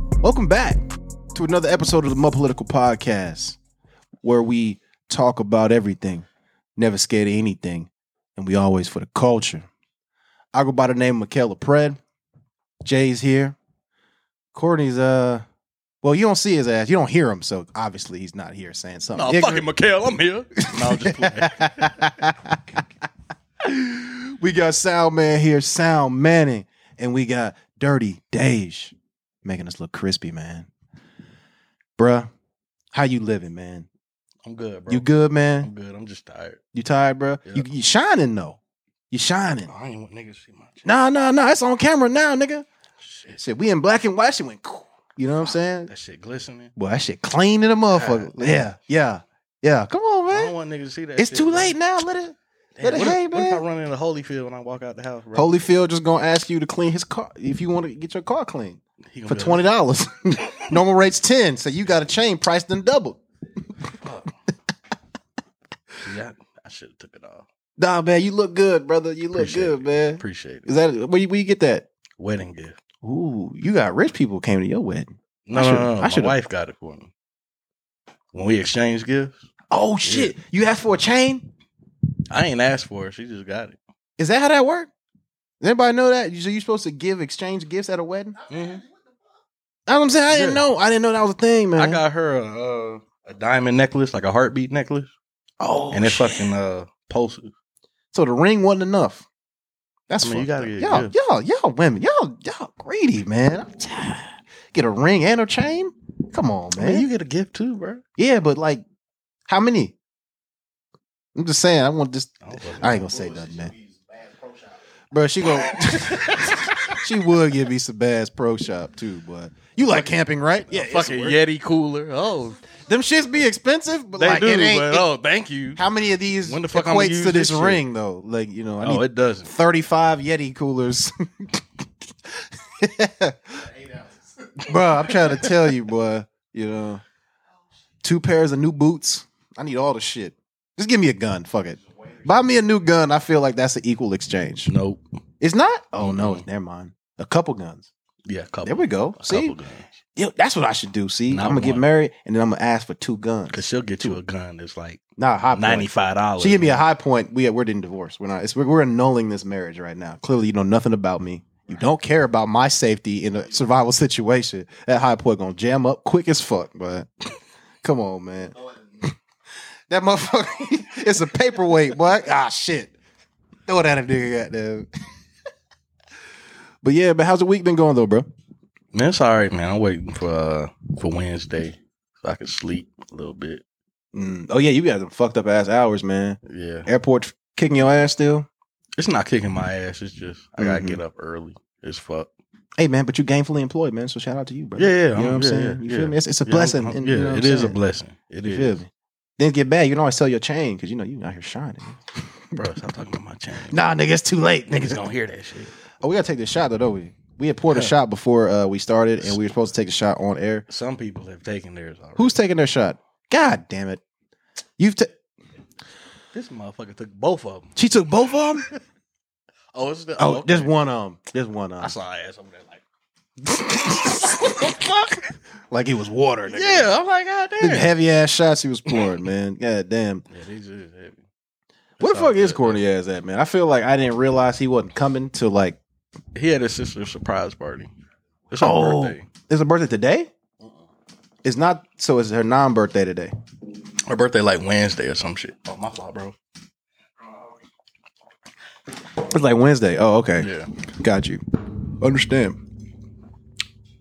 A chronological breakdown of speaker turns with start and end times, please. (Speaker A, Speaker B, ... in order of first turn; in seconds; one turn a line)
Speaker A: 0.2-0.8
Speaker A: 1.3-3.6
Speaker A: 4.2-6.2
Speaker A: 6.8-9.7
Speaker A: 10.5-12.0
Speaker A: 12.8-13.6
Speaker A: 14.5-15.4
Speaker A: 16.0-19.7
Speaker B: 19.1-21.9
Speaker A: 20.7-22.8
Speaker A: 23.6-30.7
Speaker A: 32.0-32.3
Speaker A: 32.9-33.9
Speaker B: 34.4-36.6
Speaker A: 34.9-35.7
Speaker A: 36.7-38.6
Speaker A: 39.1-39.7
Speaker B: 39.7-40.9
Speaker A: 40.8-42.6
Speaker B: 43.0-43.4
Speaker A: 43.4-45.9
Speaker B: 45.9-46.7
Speaker A: 46.8-50.5
Speaker B: 47.9-48.6
Speaker B: 50.3-51.8
Speaker A: 51.2-53.6
Speaker B: 52.8-55.5
Speaker A: 55.3-63.2
Speaker B: 59.1-59.6
Speaker B: 63.9-64.3
Speaker B: 66.0-67.5
Speaker A: 67.8-71.8
Speaker B: 69.3-70.7
Speaker B: 72.2-72.8
Speaker A: 73.0-76.4
Speaker B: 75.5-77.1
Speaker B: 78.3-79.5
Speaker A: 79.7-81.5
Speaker B: 80.0-80.3
Speaker B: 82.3-83.8
Speaker A: 84.2-84.9
Speaker A: 85.6-88.4
Speaker B: 88.5-88.8
Speaker A: 89.9-92.0
Speaker B: 90.3-90.6
Speaker B: 91.8-95.1
Speaker A: 95.6-96.5
Speaker B: 95.9-97.5
Speaker A: 98.1-99.2
Speaker A: 100.1-107.1
Speaker B: 100.2-101.1
Speaker B: 106.8-108.0
Speaker A: 108.2-108.8
Speaker A: 109.5-109.9
Speaker A: 111.3-113.7
Speaker B: 112.4-113.3
Speaker A: 115.1-121.4
Speaker B: 116.0-117.0
Speaker B: 120.7-122.6
Speaker A: 122.8-125.0
Speaker B: 124.2-125.8
Speaker A: 125.8-131.6
Speaker B: 126.4-127.8
Speaker B: 128.8-129.5
Speaker A: 132.2-133.7
Speaker A: 134.6-137.0
Speaker B: 134.6-135.5
Speaker A: 138.0-144.7
Speaker B: 144.7-145.0
Speaker A: 145.4-147.9
Speaker B: 146.0-146.4
Speaker B: 148.2-150.0
Speaker A: 148.6-149.5
Speaker A: 150.2-154.2
Speaker B: 151.3-151.8
Speaker B: 153.5-155.0
Speaker A: 155.2-167.1
Speaker B: 155.5-156.8
Speaker A: 167.8-169.1
Speaker A: 169.9-172.9
Speaker A: 173.7-174.9
Speaker A: 176.8-178.2
Speaker B: 178.9-183.6
Speaker A: 184.1-188.5
Speaker B: 186.4-186.9
Speaker B: 189.0-192.3
Speaker A: 190.6-191.0
Speaker A: 192.8-197.8
Speaker B: 194.8-198.8
Speaker A: 198.4-202.0
Speaker B: 202.5-203.8
Speaker A: 203.7-205.1
Speaker B: 204.7-205.7
Speaker A: 206.0-210.6
Speaker B: 210.7-212.4
Speaker A: 212.2-214.0
Speaker A: 214.8-215.1
Speaker B: 216.3-217.7
Speaker A: 217.8-218.7
Speaker B: 219.7-220.7
Speaker A: 220.2-221.9
Speaker B: 221.8-222.8
Speaker A: 223.4-226.9
Speaker B: 226.5-227.9
Speaker A: 227.6-230.2
Speaker B: 230.3-231.2
Speaker B: 232.0-232.8
Speaker A: 232.0-235.8
Speaker B: 236.3-237.9
Speaker B: 238.5-239.3
Speaker A: 238.6-240.3
Speaker A: 241.4-243.3
Speaker B: 244.1-246.3
Speaker A: 249.2-251.4
Speaker B: 250.4-250.7
Speaker A: 252.0-252.6